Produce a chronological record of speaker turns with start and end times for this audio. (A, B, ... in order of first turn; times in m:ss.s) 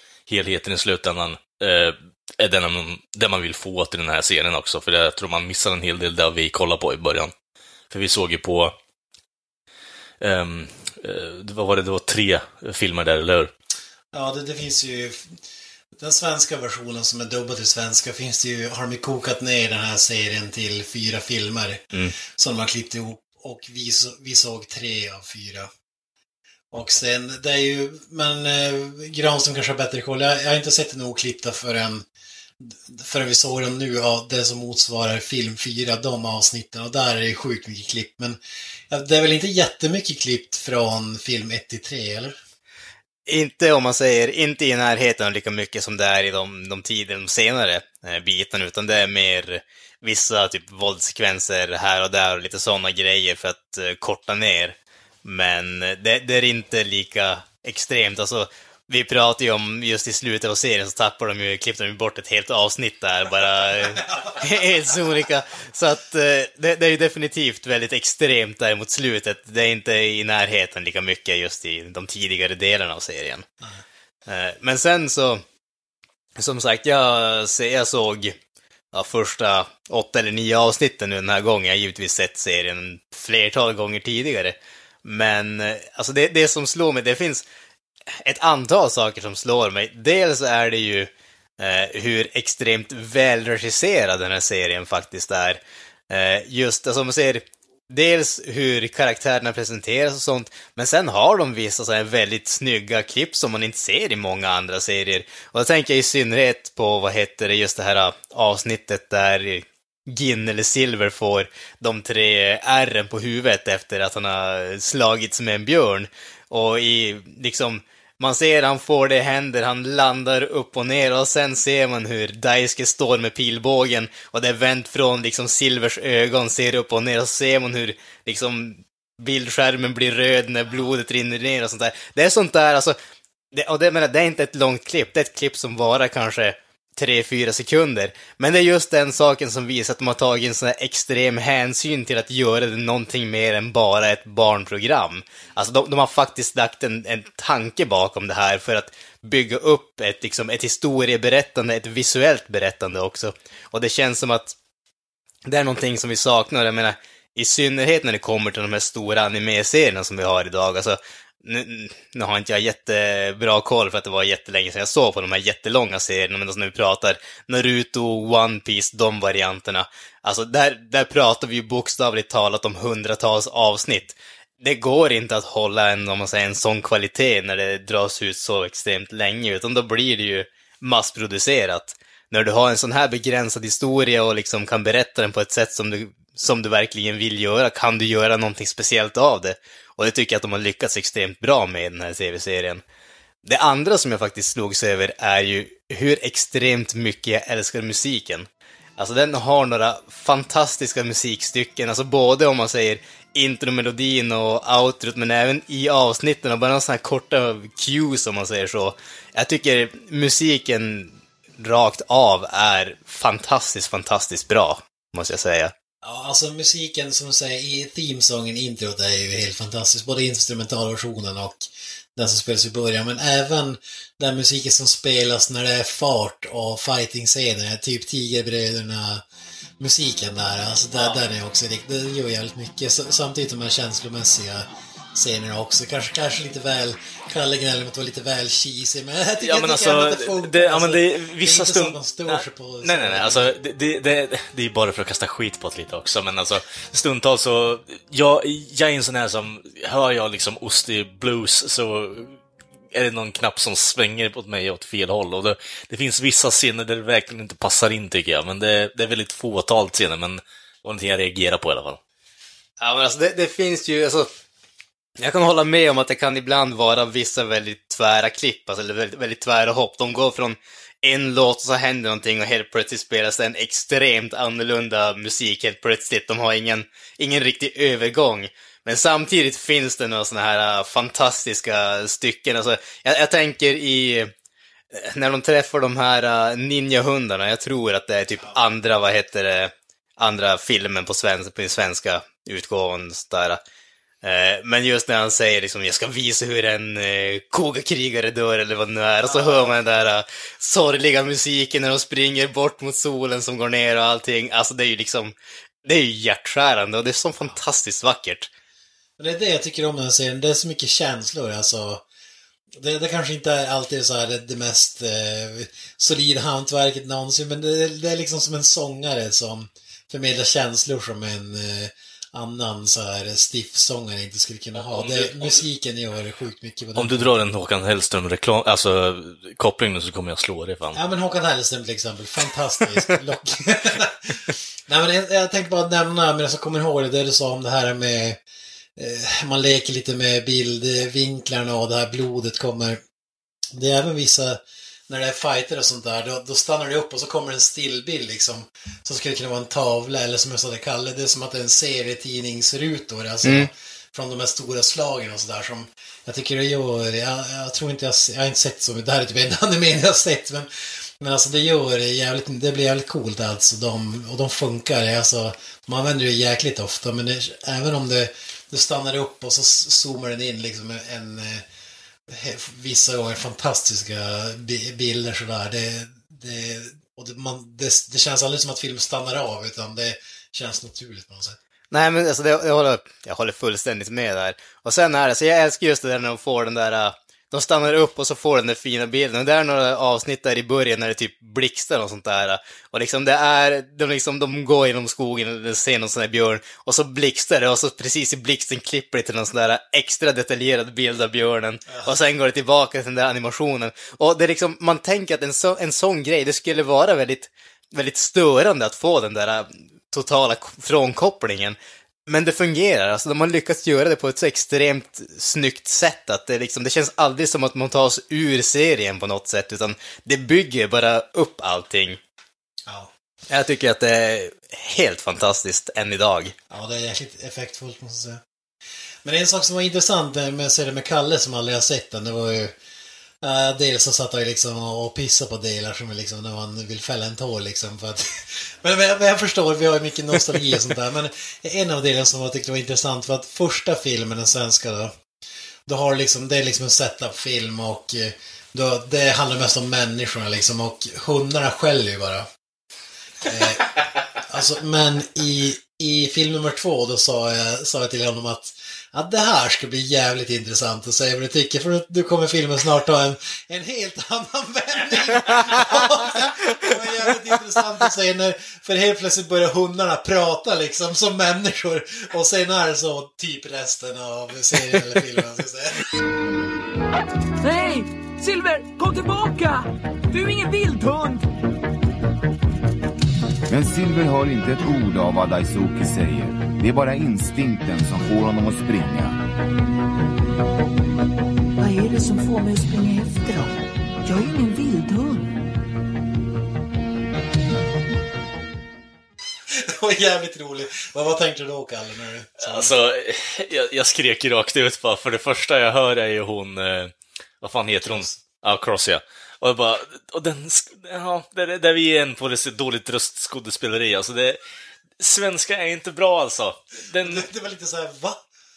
0:00.3-0:07.3 A
0:07.9-0:08.7 A
0:10.2-0:13.5 A
0:14.1-0:15.4 B
0:15.9-0:25.7 B
0:26.7-0:32.0 B
0:32.6-0:42.4 B
0:43.3-1:13.4 C
1:04.0-1:04.5 B
1:14.3-1:15.4 C
1:16.4-1:18.4 C
1:18.9-1:27.4 C
1:28.2-2:13.0 C
2:13.5-2:34.6 C
2:35.5-3:12.8 C
3:13.4-3:35.7 C
3:36.0-3:49.2 B
3:49.8-4:03.5 B
3:59.4-4:12.4 A
4:12.9-4:22.0 A
4:22.8-4:24.3 C
4:25.2-4:44.3 C
4:44.9-4:53.6 C
4:54.2-5:08.5 C
4:59.2-5:00.1 B
5:09.2-5:12.0 B
5:12.7-5:27.4 B
5:24.8-5:25.6 A
5:27.0-5:31.0 A
5:30.9-5:38.4 B
5:39.0-5:43.0 B
5:43.7-6:11.6 B
5:53.4-5:53.7 C
6:12.3-6:21.6 B
6:21.9-7:02.2 C
6:41.9-6:42.2 B
7:02.9-7:03.1 B
7:03.5-7:06.6 C
7:06.7-7:08.4 B
7:09.2-7:12.7 B
7:13.4-7:25.1 B
7:25.9-7:32.5 B
7:33.4-7:56.0 B
7:57.6-8:01.4 D
8:03.7-8:09.4 E
8:11.8-8:15.5 D
8:19.7-8:22.9 B
8:22.6-8:34.6 A
8:35.2-8:37.4 A
8:37.1-8:38.4 B